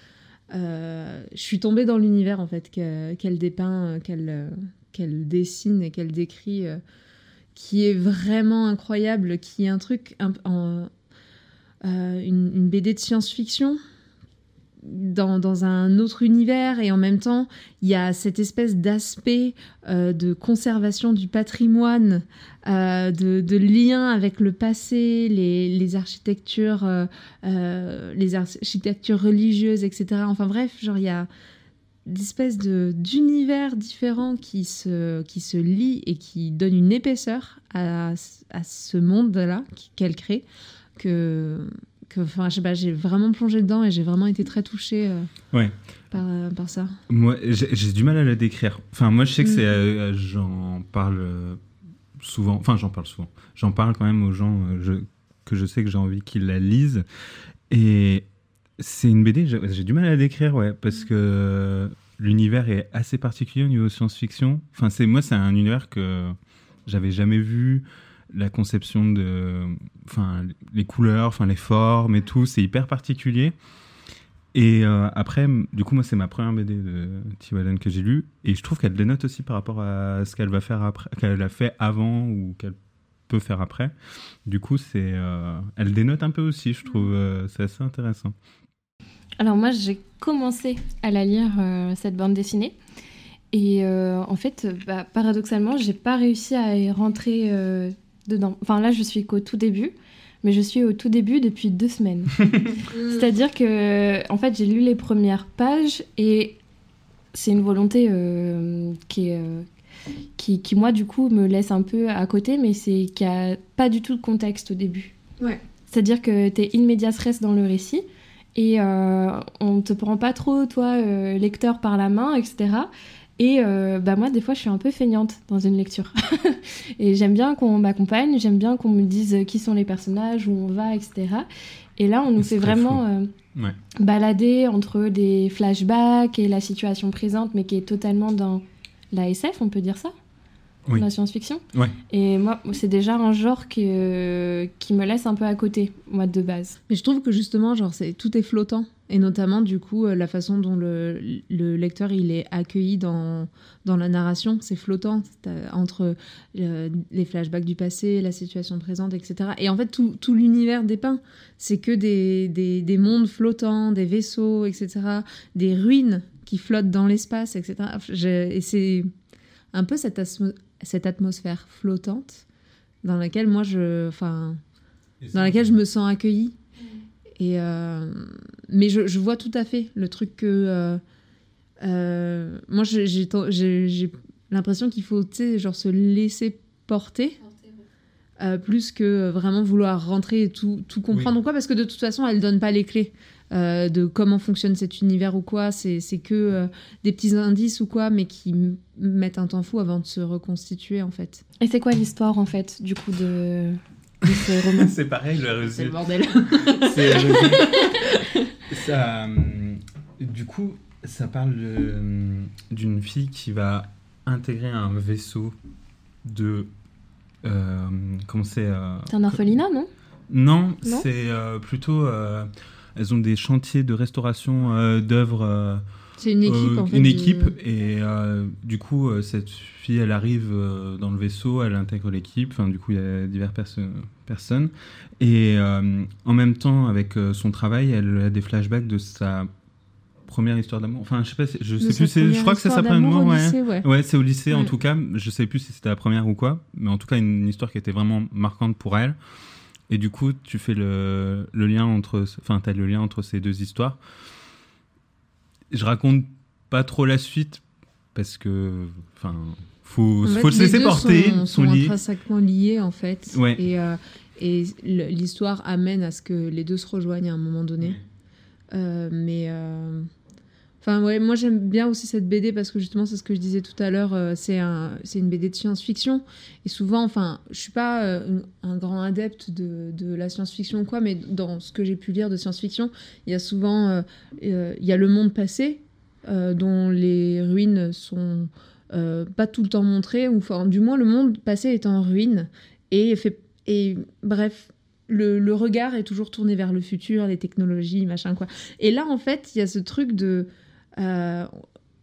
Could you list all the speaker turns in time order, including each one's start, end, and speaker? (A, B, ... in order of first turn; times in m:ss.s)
0:00.5-0:06.8 A
0:07.5-0:10.9 A
0:11.8-0:13.8 A
0:14.8-0:31.3 A
0:32.1-0:40.4 A
0:41.0-0:45.3 A
0:46.1-0:46.9 A
0:47.1-0:51.6 B
0:49.4-0:49.7 A
0:52.2-0:57.0 B
0:57.7-0:58.2 B
0:58.8-1:06.3 B
1:06.9-1:13.5 B
1:14.5-1:22.8 B
1:23.3-1:23.9 B
1:24.4-1:28.3 B
1:29.4-1:32.7 C
1:33.5-1:42.4 C
1:42.9-1:43.3 A
1:43.1-1:46.6 C
1:47.3-1:49.6 C
1:50.4-1:55.1 C
1:55.9-1:58.0 C
1:58.5-2:13.3 C
2:12.4-2:13.0 B
2:14.0-2:20.1 C
2:21.0-2:26.8 C
2:26.9-2:49.1 A
2:49.7-2:52.4 A
2:53.0-2:54.6 A
2:55.2-2:55.8 B
2:55.3-2:56.5 A
2:57.4-3:01.0 A
3:01.8-3:07.4 A
3:08.4-3:21.4 A
3:21.6-3:24.9 C
3:24.8-3:26.0 B
3:25.7-3:28.4 A
3:26.6-3:28.0 B
3:28.7-3:35.5 B
3:36.2-3:36.7 B
3:37.4-3:39.4 B
3:39.1-3:39.9 C
3:40.3-3:45.8 B
3:46.2-3:47.6 A
3:46.4-3:59.5 B
4:00.3-4:09.2 B
4:01.8-4:03.9 A
4:09.9-4:14.0 B
4:15.7-4:17.6 B
4:18.1-4:22.0 B
4:20.2-4:28.0 A
4:23.3-4:23.6 B
4:28.7-4:30.0 A
4:30.8-5:01.5 A